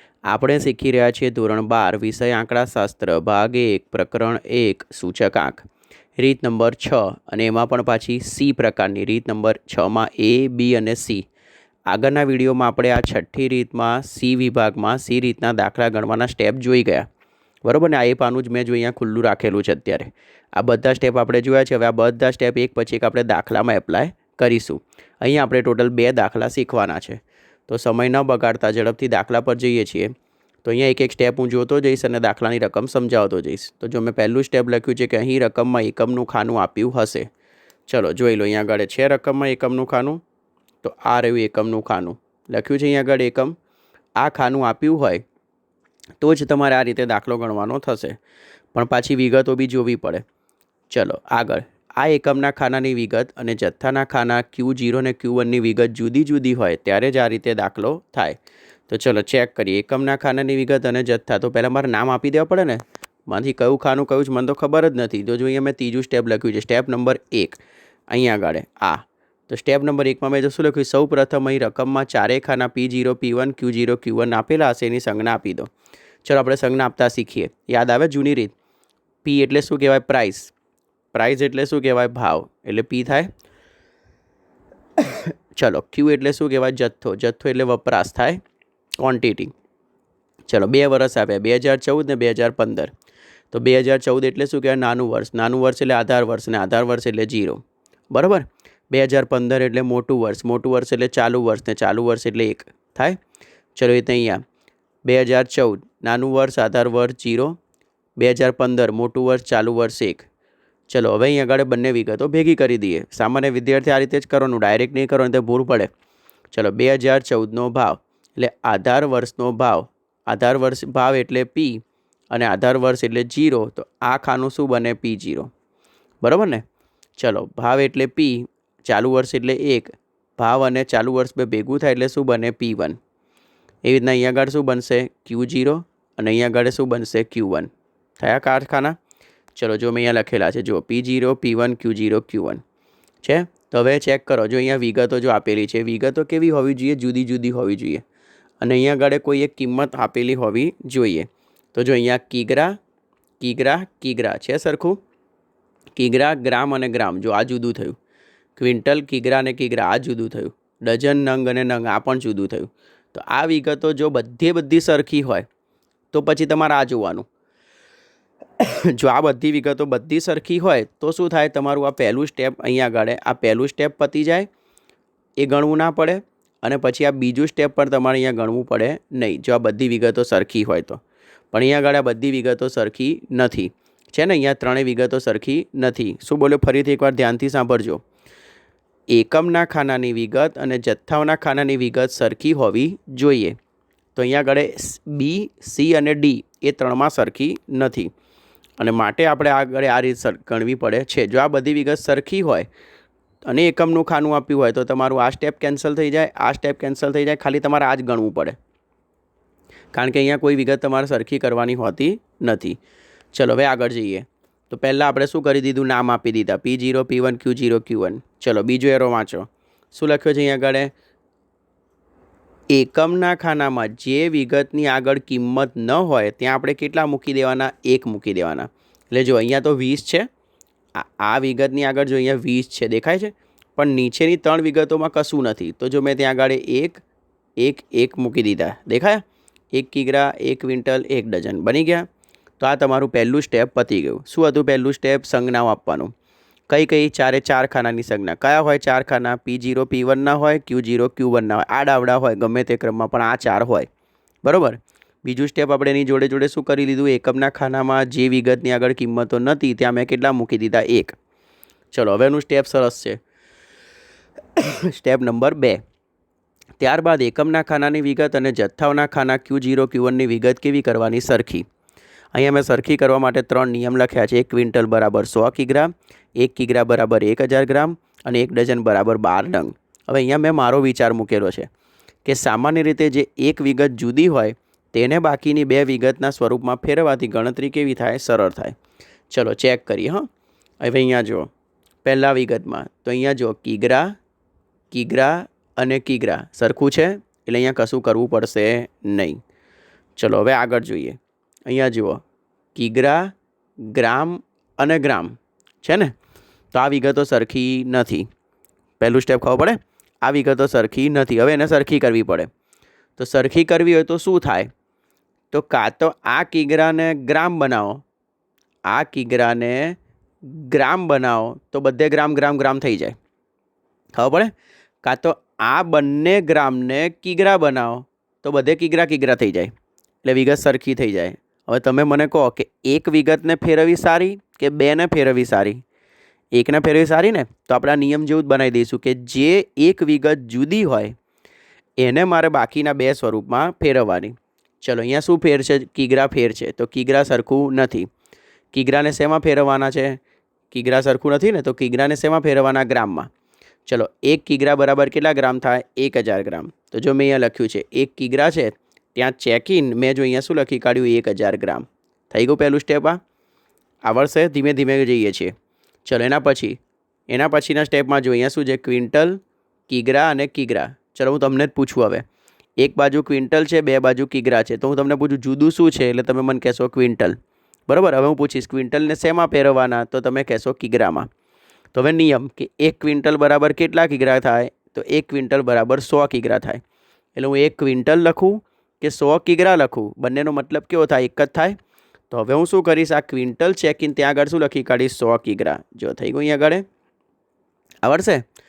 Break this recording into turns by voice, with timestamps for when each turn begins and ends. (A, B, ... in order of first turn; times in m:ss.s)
0:00.3-0:05.6 A
0:06.2-0:11.3 A
0:11.9-0:17.1 A
0:17.6-0:30.1 A
0:30.6-0:37.3 A
0:37.9-0:40.2 A
0:40.8-0:43.6 A
0:44.2-0:45.2 A
0:46.2-0:48.2 A
0:48.7-0:50.2 A
0:50.9-1:15.7 A
1:16.2-1:18.5 A
1:19.2-1:20.5 A
1:21.1-1:23.3 A
1:25.0-1:28.4 A
1:29.0-1:29.5 A
1:30.5-1:32.9 A
1:33.5-1:43.2 A
1:43.7-1:44.4 A
1:45.0-1:47.6 A
1:48.2-1:50.2 A
1:50.9-1:55.9 A
1:56.5-2:05.5 A
2:06.2-2:06.6 A
2:07.2-2:13.0 A
2:13.8-2:19.0 A
2:19.5-2:22.6 A
2:23.2-2:28.0 A
2:28.6-2:32.8 A
2:33.4-2:35.0 A
2:36.0-2:38.0 A
2:38.6-2:45.4 A
2:46.1-2:47.3 A
2:48.6-2:54.5 A
2:55.4-3:08.0 A
3:09.1-3:13.6 A
3:14.1-3:18.1 A
3:18.8-3:22.7 A
3:23.4-3:28.6 A
3:29.9-3:32.8 A
3:33.3-3:40.9 A
3:42.7-3:50.3 A
3:50.9-3:57.0 A
3:57.6-4:02.1 A
4:02.6-4:06.1 A
4:06.7-4:13.9 A
4:14.4-4:21.1 A
4:21.9-4:23.2 A
4:24.6-4:25.8 A
4:26.8-4:31.6 A
4:32.3-4:41.7 A
4:42.2-4:48.8 A
4:49.3-4:50.3 A
4:50.8-4:51.5 A
4:52.0-4:54.2 A
4:54.9-4:59.4 A
5:00.2-5:02.2 A
5:02.7-5:06.1 A
5:06.7-5:08.3 A
5:09.0-5:12.5 A
5:13.2-5:14.7 A
5:15.5-5:18.0 A
5:18.9-5:23.1 A
5:24.1-5:29.7 A
5:30.2-5:35.8 A
5:36.5-5:41.2 A
5:42.0-5:48.1 A
5:48.7-5:53.3 A
5:53.8-6:03.2 A
6:04.0-6:05.5 A
6:06.0-6:12.2 A
6:12.8-6:17.4 A
6:17.9-6:21.3 A
6:21.9-6:26.8 A
6:27.3-6:31.8 A
6:32.3-6:36.8 A
6:38.0-6:38.4 A